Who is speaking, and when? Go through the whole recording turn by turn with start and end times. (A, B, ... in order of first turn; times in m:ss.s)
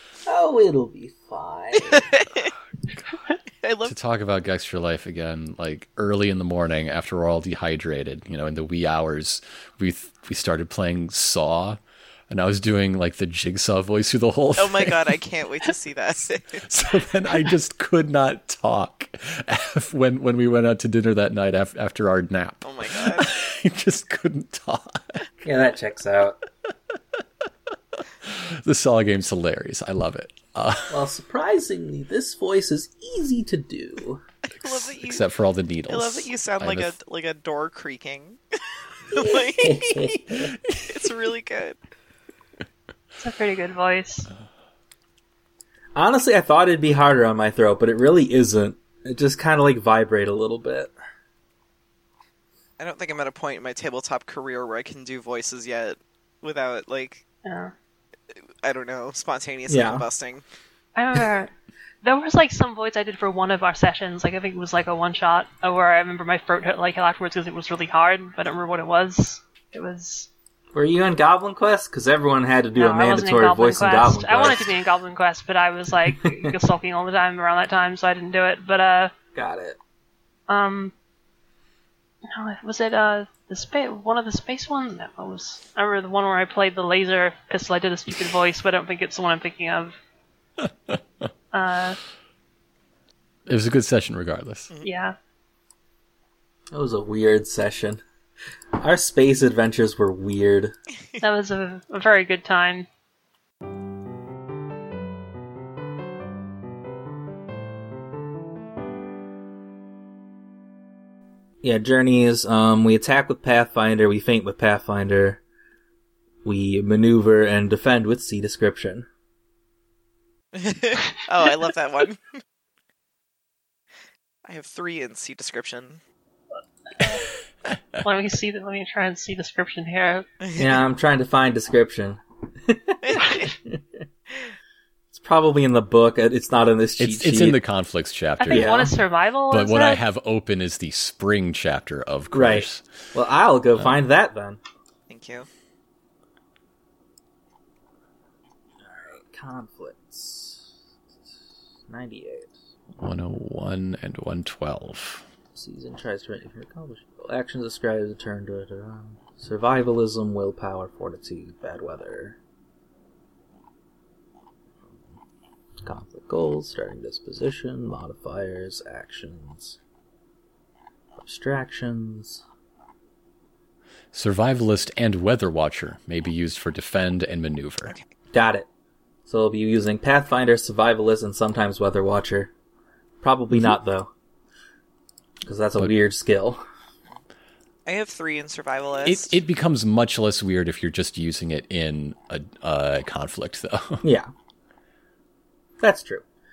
0:00.3-0:02.0 A
0:01.9-0:02.5 B
0:03.6-0:03.9 B
0:03.8-0:11.8 C
0:12.3-0:15.1 C
0:14.6-0:16.7 B
0:16.7-0:25.4 C
0:22.6-0:23.3 B
0:25.4-0:26.4 A
0:28.2-0:31.1 C
0:30.9-0:34.2 A
0:34.6-0:35.2 B
0:34.6-0:37.0 C
0:35.9-0:38.4 B
0:39.1-0:41.8 B
0:39.2-0:40.4 A
0:43.2-0:44.3 D
0:46.0-0:50.9 A
0:52.8-0:57.2 B
0:57.4-0:57.7 D
0:58.6-1:00.4 B
0:59.7-1:00.1 A
1:01.0-1:01.5 D
1:02.0-1:10.3 D
1:10.7-1:14.7 A
1:12.8-1:19.1 D
1:16.1-1:16.4 A
1:19.3-1:19.8 A
1:20.5-1:20.9 D
1:22.3-1:30.0 D
1:31.5-1:32.0 D
1:33.5-1:34.7 C
1:34.8-1:35.1 D
1:36.7-1:38.0 A
1:38.8-1:40.7 A
1:41.2-1:42.9 D
1:51.6-1:55.4 A
1:56.4-1:59.0 A
2:00.6-2:02.2 B
2:04.4-2:06.0 B
2:07.0-2:07.2 D
2:08.0-2:10.2 D
2:10.4-2:10.7 B
2:10.6-2:13.0 A
2:13.0-2:13.5 B
2:15.1-2:17.6 A
2:17.0-2:18.8 C
2:18.4-2:20.0 D
2:18.5-2:18.9 A
2:19.5-2:22.8 C
2:22.3-2:24.6 A
2:25.1-2:25.5 B
2:28.8-2:30.7 A
2:31.9-2:32.6 A
2:33.0-2:35.2 C
2:35.5-2:42.4 A
2:45.8-2:49.8 A
2:51.2-2:52.4 A
2:54.1-2:58.0 C
2:58.3-2:58.7 A
2:59.2-3:02.5 A
3:03.2-3:04.1 A
3:03.5-3:03.8 C
3:05.4-3:06.6 A
3:07.9-3:09.4 B
3:09.0-3:14.0 C
3:14.0-3:14.3 A
3:15.8-3:16.2 A